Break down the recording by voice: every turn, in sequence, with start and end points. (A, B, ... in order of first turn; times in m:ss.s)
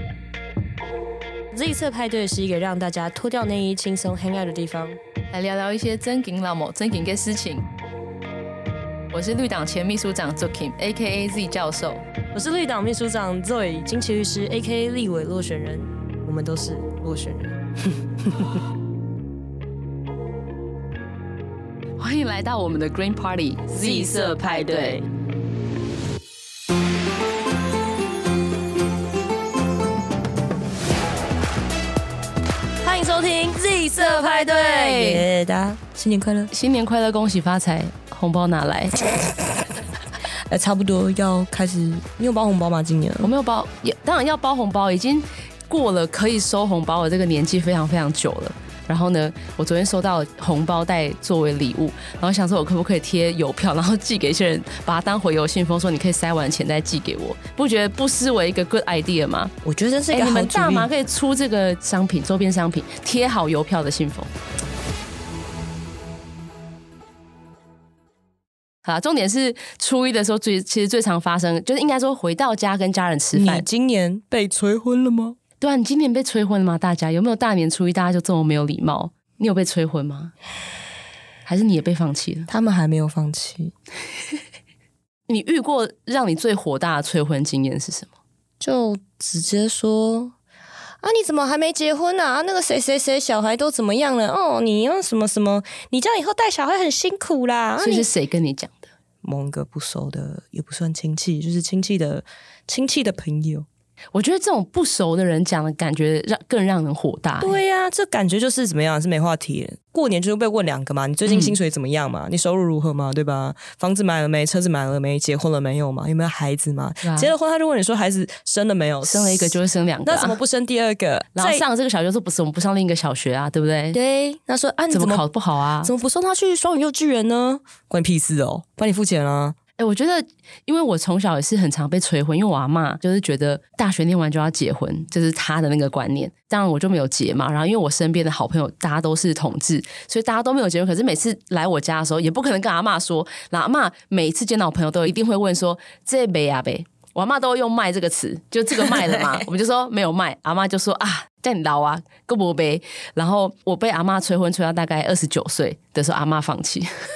0:01.5-0:05.0 A
0:05.3-0:07.7 B
0:09.1-0:12.0 B
0:12.3-0:18.0 A
0:22.0-0:25.0 B
0:24.0-0:24.8 A
0:32.8-0:36.5 A
0:34.0-0:35.2 B
0:36.5-0:39.1 B
0:40.5-0:43.3 A
0:43.2-0:59.5 B
0:59.6-1:00.9 A
1:00.1-1:04.3 B
1:08.8-1:13.7 B
1:13.3-1:15.4 A
1:15.6-1:20.3 B
1:21.5-1:22.5 B
1:22.5-1:23.7 A
1:25.3-1:28.1 B
1:28.6-1:30.4 A
1:31.0-1:38.1 A
1:37.8-1:38.9 B
1:39.2-1:43.7 A
1:44.1-1:47.6 B
1:47.4-2:01.6 A
1:51.3-1:51.6 B
1:57.0-1:57.3 B
1:59.0-2:00.4 B
2:01.4-2:04.0 B
2:03.9-2:05.2 A
2:04.9-2:05.9 B
2:05.8-2:09.6 A
2:09.8-2:36.9 B